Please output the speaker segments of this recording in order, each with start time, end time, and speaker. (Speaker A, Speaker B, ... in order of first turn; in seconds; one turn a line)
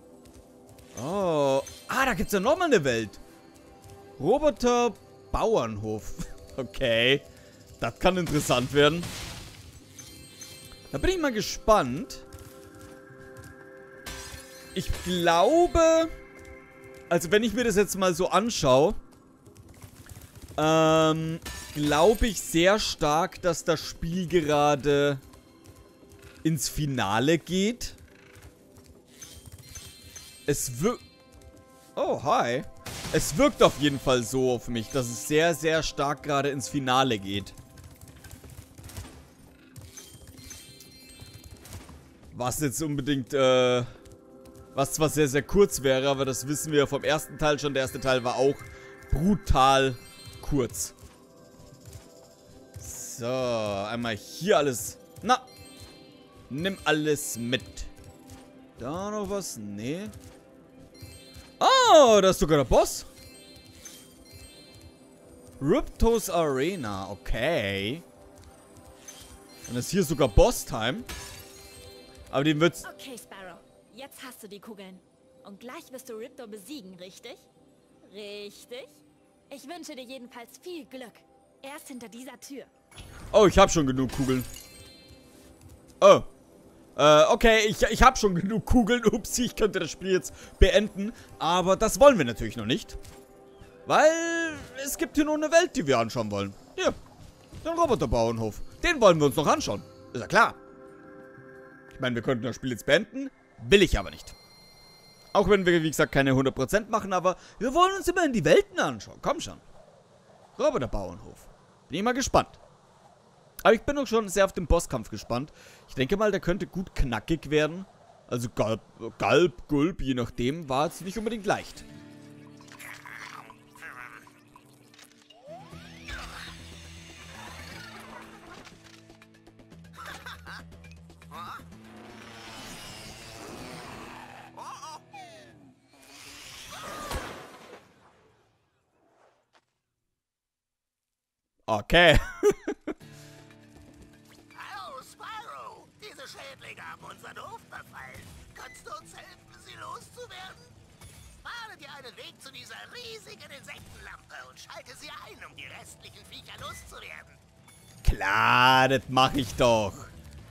Speaker A: 0.9-3.2
Speaker A: 4.2-7.2
Speaker A: 7.8-9.1
Speaker A: 10.9-12.2
Speaker A: 14.7-16.1
Speaker A: 17.1-19.0
Speaker A: 20.6-25.2
Speaker A: 26.4-28.0
Speaker A: 30.5-31.0
Speaker A: 31.9-37.5
Speaker A: 42.3-43.9
Speaker A: 44.7-50.9
Speaker A: 52.8-55.5
Speaker A: 56.5-57.9
Speaker A: 58.8-60.1
Speaker A: 61.6-63.1
Speaker A: 65.6-68.0
Speaker A: 69.7-71.0
Speaker A: 72.3-72.8
Speaker B: 72.8-77.5
Speaker B: 78.0-79.0
Speaker B: 79.5-82.7
Speaker A: 83.3-84.5
Speaker A: 86.0-86.3
Speaker A: 87.0-93.0
Speaker A: 93.8-97.0
Speaker A: 97.6-100.6
Speaker A: 101.9-104.3
Speaker A: 105.3-109.6
Speaker A: 110.6-112.6
Speaker A: 113.6-121.8
Speaker C: 134.5-135.1
Speaker A: 141.7-142.8
Speaker C: 144.5-150.7
Speaker C: 151.4-157.4
Speaker A: 158.0-160.1